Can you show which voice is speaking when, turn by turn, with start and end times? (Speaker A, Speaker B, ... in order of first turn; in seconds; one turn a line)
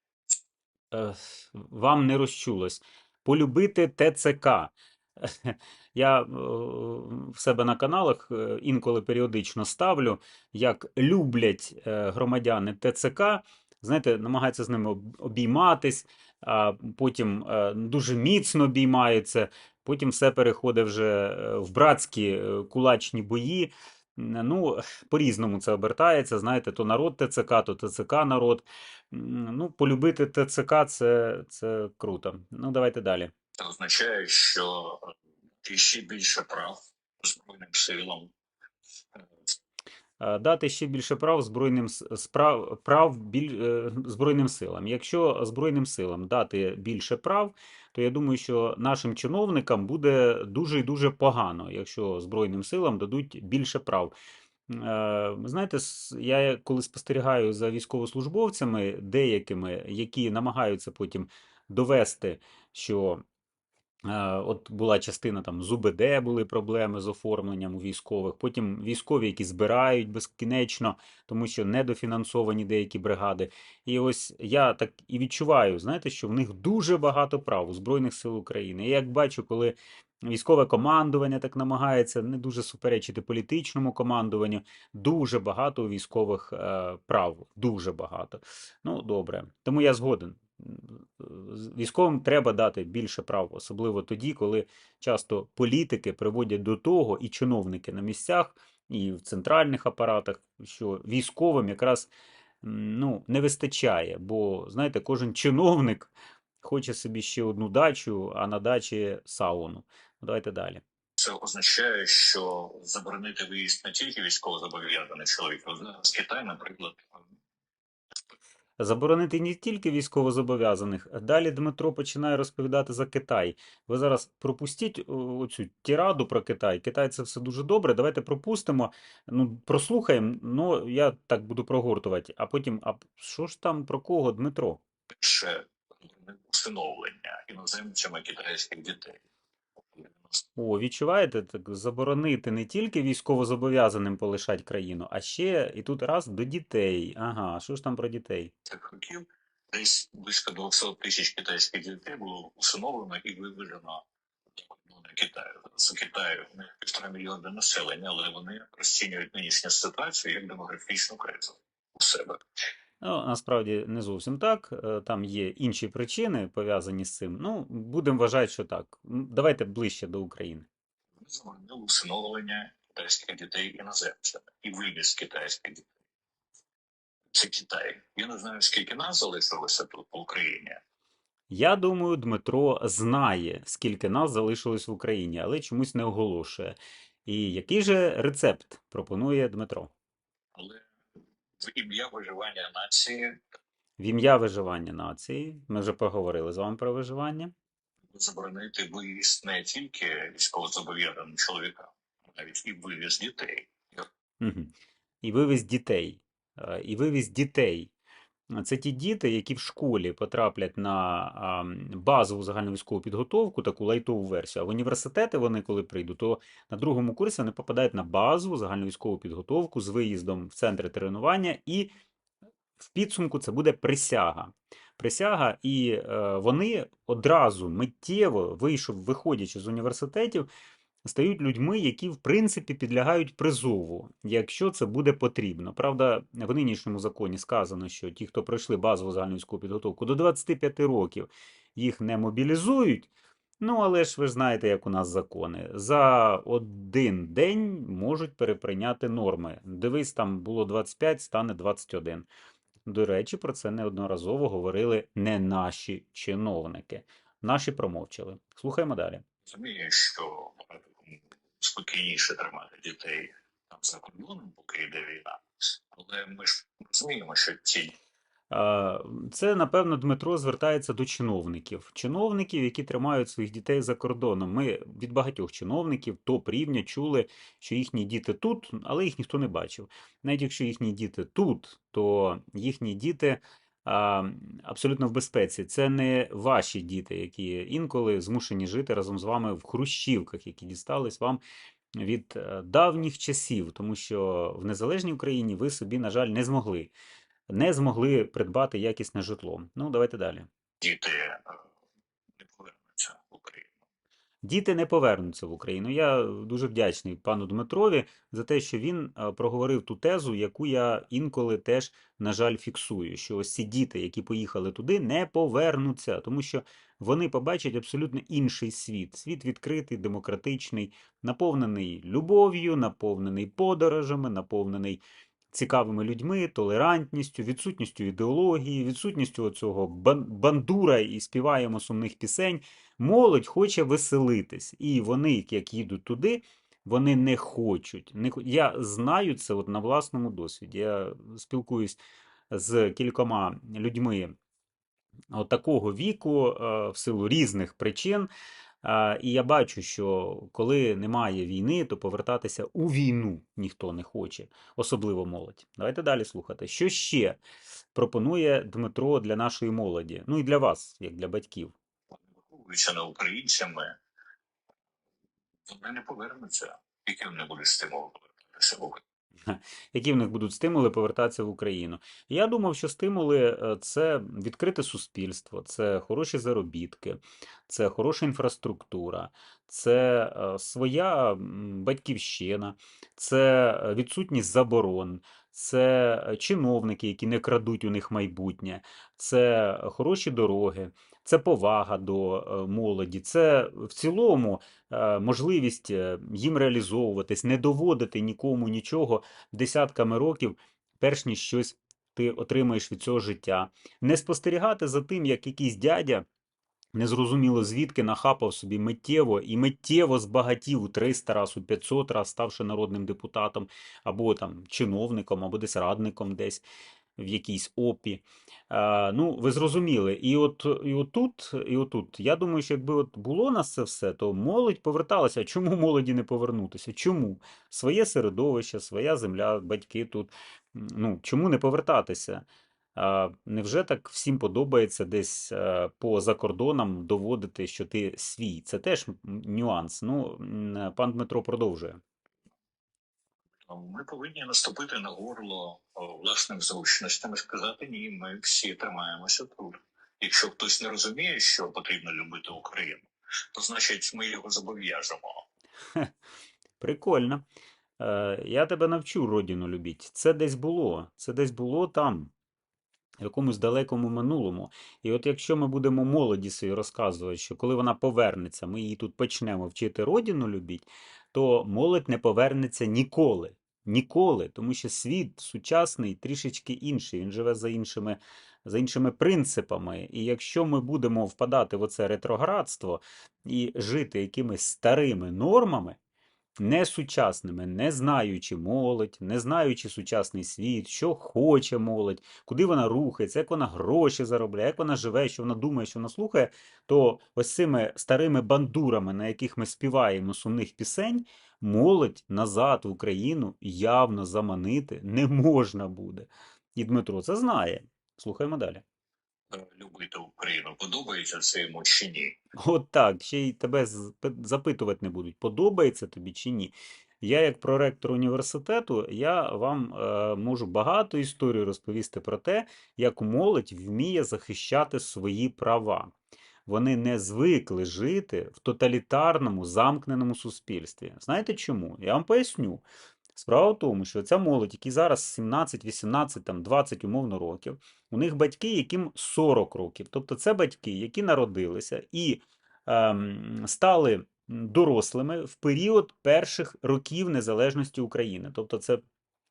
Speaker A: 0.9-33.3
Speaker B: 33.6-38.3
Speaker B: 39.1-39.5
Speaker A: 40.2-54.1
Speaker A: 54.7-63.2
Speaker A: 64.1-102.1
Speaker A: 102.6-110.8
Speaker B: 111.2-117.2
Speaker A: 118.8-134.8
Speaker B: 135.1-139.2
Speaker B: 139.8-140.4
Speaker A: 140.6-148.5
Speaker B: 148.7-154.0
Speaker B: 154.6-162.4
Speaker A: 163.0-170.7
Speaker B: 171.2-175.9
Speaker B: 177.3-180.8
Speaker A: 181.5-189.9
Speaker B: 190.6-190.9
Speaker B: 191.6-193.4
Speaker A: 194.0-197.5
Speaker B: 198.1-204.1
Speaker A: 204.4-207.9
Speaker A: 208.5-221.9
Speaker A: 222.8-230.5
Speaker A: 231.1-252.3
Speaker A: 252.9-259.2
Speaker B: 259.4-267.9
Speaker A: 268.5-291.4
Speaker A: 291.9-296.9
Speaker A: 297.5-300.5
Speaker B: 300.8-301.6
Speaker B: 302.4-303.7
Speaker A: 304.4-325.0
Speaker A: 325.5-342.0
Speaker A: 342.5-344.4
Speaker A: 345.3-348.3
Speaker A: 348.8-357.4
Speaker A: 357.9-361.7
Speaker B: 362.1-364.0
Speaker B: 365.6-369.0
Speaker A: 369.5-406.2
Speaker A: 406.9-416.6
Speaker A: 417.2-432.4
Speaker A: 433.0-442.0
Speaker B: 443.6-455.4
Speaker A: 456.8-457.4
Speaker A: 458.0-462.3
Speaker A: 463.2-486.0
Speaker A: 486.6-508.8
Speaker B: 509.5-512.4
Speaker A: 512.6-526.1
Speaker A: 526.6-532.8
Speaker A: 533.4-549.0